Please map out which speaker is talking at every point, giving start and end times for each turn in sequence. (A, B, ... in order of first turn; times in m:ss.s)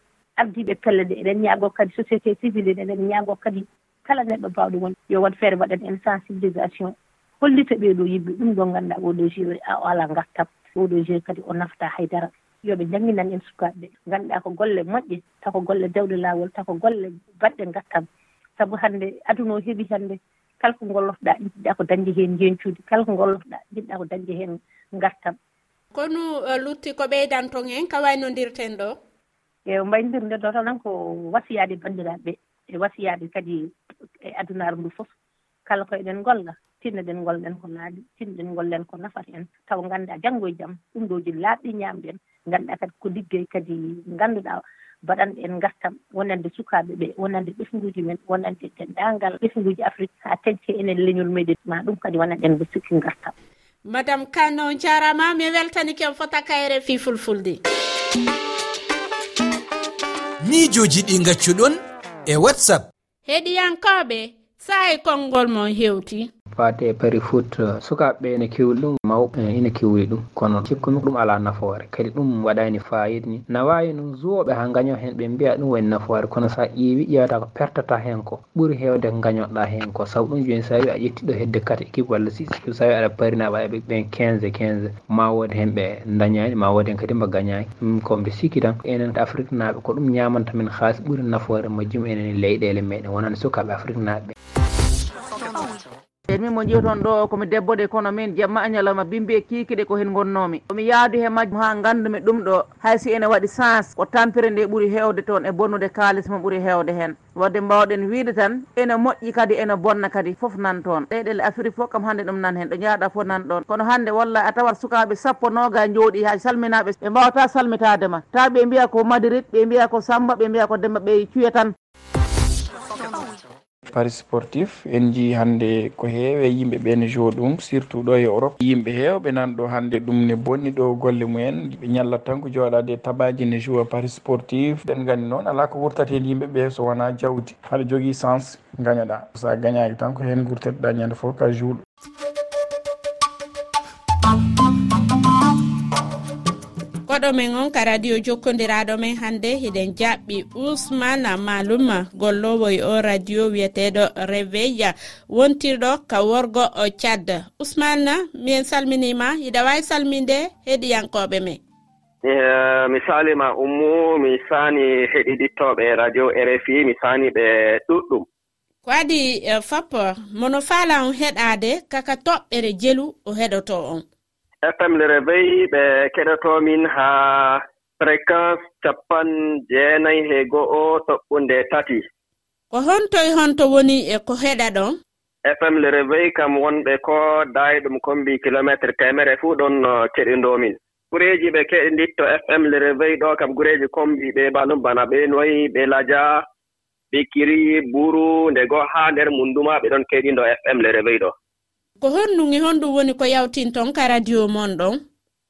0:00.4-0:18.0 A
0:18.6-0:25.4 A
0:25.9-0:29.0 B
0:29.7-0:33.7 A
0:34.2-0:35.1 A
0:35.7-0:53.3 A
0:53.9-0:57.6 B
1:00.4-1:02.9 C
1:03.3-1:06.3 B
1:06.5-1:34.3 D
1:36.3-2:01.7 E
2:03.9-2:21.8 F
2:27.1-2:41.6 B
2:42.2-2:48.3 G
2:48.8-2:54.0 B
2:54.6-3:02.0 G
3:02.7-3:05.0 B
3:05.5-3:16.4 G
3:17.1-3:21.3 G
3:22.0-3:25.0 B